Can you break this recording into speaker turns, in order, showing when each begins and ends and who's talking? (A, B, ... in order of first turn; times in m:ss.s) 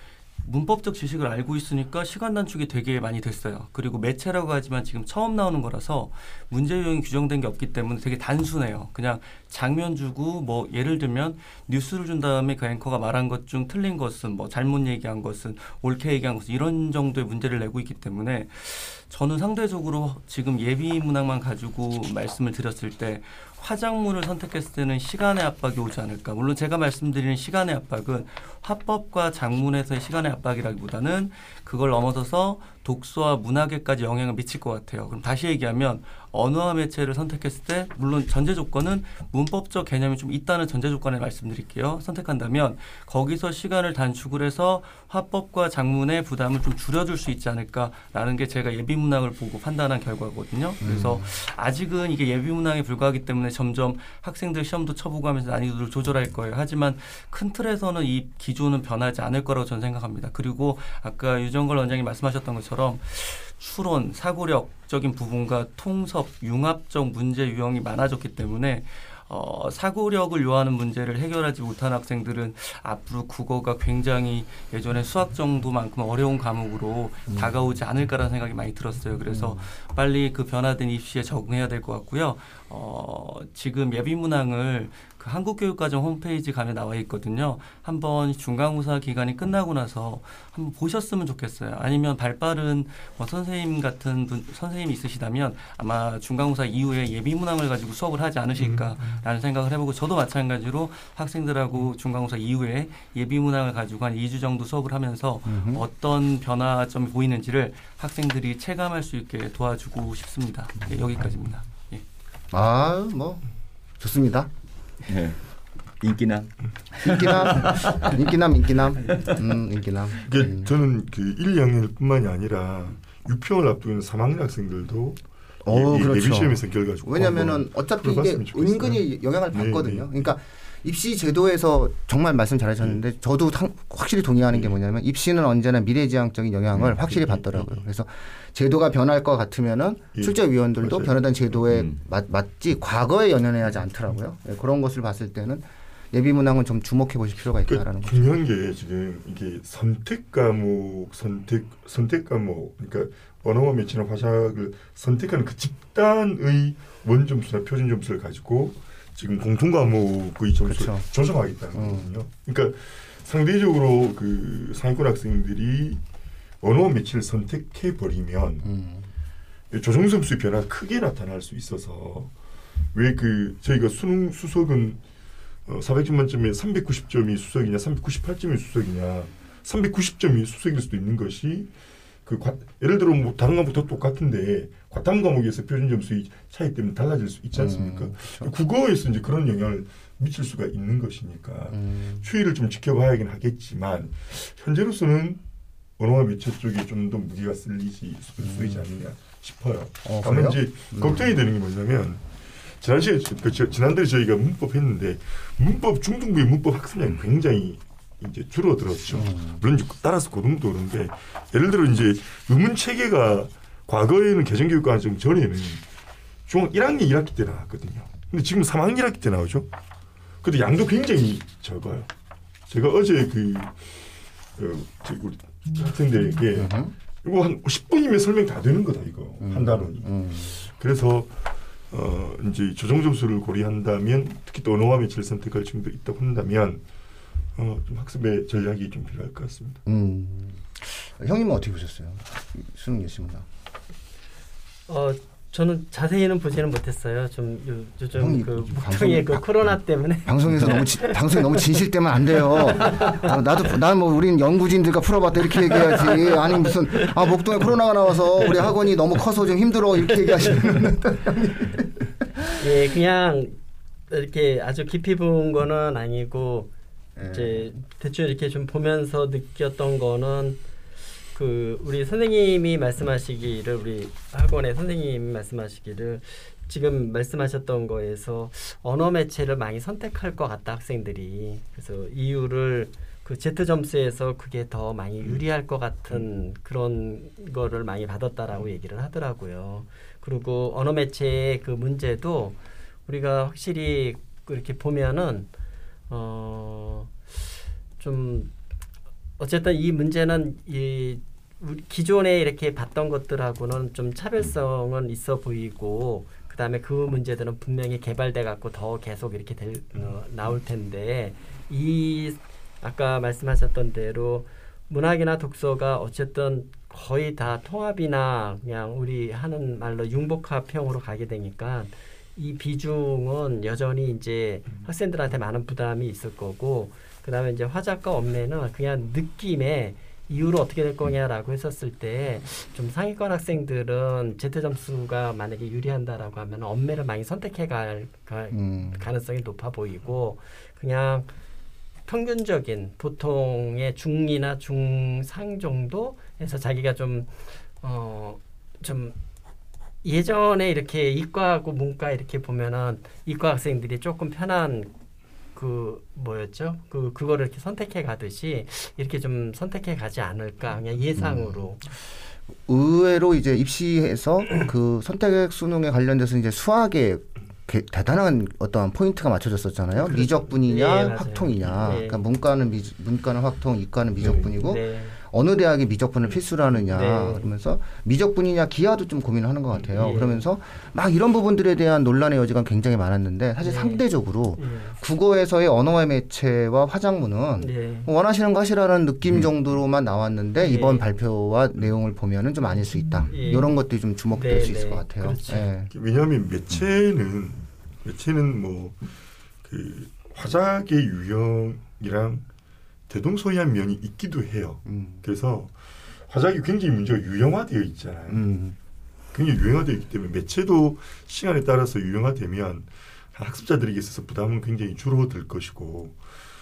0:00.4-1:52.0 A
0:50.8-0:51.3 B
1:19.3-1:19.6 B
1:38.6-1:39.1 C
1:45.5-1:45.8 B
1:52.5-1:53.4 B
1:54.0-1:54.5 B
1:55.1-1:55.4 D
1:56.0-1:58.2 D
1:57.0-2:00.7 B
1:59.1-1:59.4 D
2:00.2-2:10.3 C
2:05.6-2:28.3 B
2:16.8-2:17.1 D
2:17.2-2:17.8 C
2:20.2-2:21.2 C
2:21.7-2:22.0 D
2:27.7-2:46.0 C
2:40.6-2:41.1 B
2:41.7-2:42.1 B
2:46.6-2:48.6 C
2:48.6-2:49.1 B
2:49.7-2:52.3 C
2:52.9-2:55.0 C
2:55.6-3:01.7 C
3:02.2-3:15.4 C
3:07.5-3:08.5 B
3:11.7-3:12.2 B
3:16.0-3:35.8 C
3:18.4-3:18.8 B
3:20.0-3:21.3 B
3:29.1-3:29.6 B
3:36.5-3:39.7 C
3:40.4-3:42.1 C
3:42.7-3:44.0 C
3:44.6-3:51.4 C
3:46.6-3:46.9 B
3:49.4-3:50.5 B
3:51.9-3:56.8 C
3:57.6-3:59.8 C
3:59.9-4:03.5 B
4:04.9-4:11.8 E
4:08.1-4:09.6 B
4:10.2-4:22.0 B
4:12.5-4:13.3 E
4:16.0-4:17.1 E
4:22.6-4:23.6 E
4:24.1-4:26.7 E
4:27.2-4:27.7 B
4:27.3-4:30.6 E
4:31.3-4:55.5 E
4:56.1-4:57.1 E
4:58.0-4:58.5 E
4:59.4-5:41.3 E
5:38.5-5:39.0 B
5:42.0-5:49.2 E
5:50.0-5:54.9 E
5:55.5-6:01.8 E
6:01.2-6:01.6 B
6:02.7-6:35.9 B
6:10.5-6:12.2 E
6:14.4-6:15.2 E
6:16.9-6:17.5 E
6:20.0-6:20.4 E
6:23.6-6:24.0 E
6:24.6-6:25.0 E
6:27.6-6:28.1 E
6:30.6-6:31.1 E
6:33.3-6:33.7 E
6:34.4-6:35.7 E
6:35.9-6:39.0 C
6:39.6-6:42.4 C
6:43.1-6:45.7 C
6:44.9-6:45.2 B
6:46.3-6:48.4 C
6:48.3-6:48.8 B
6:49.3-6:56.2 C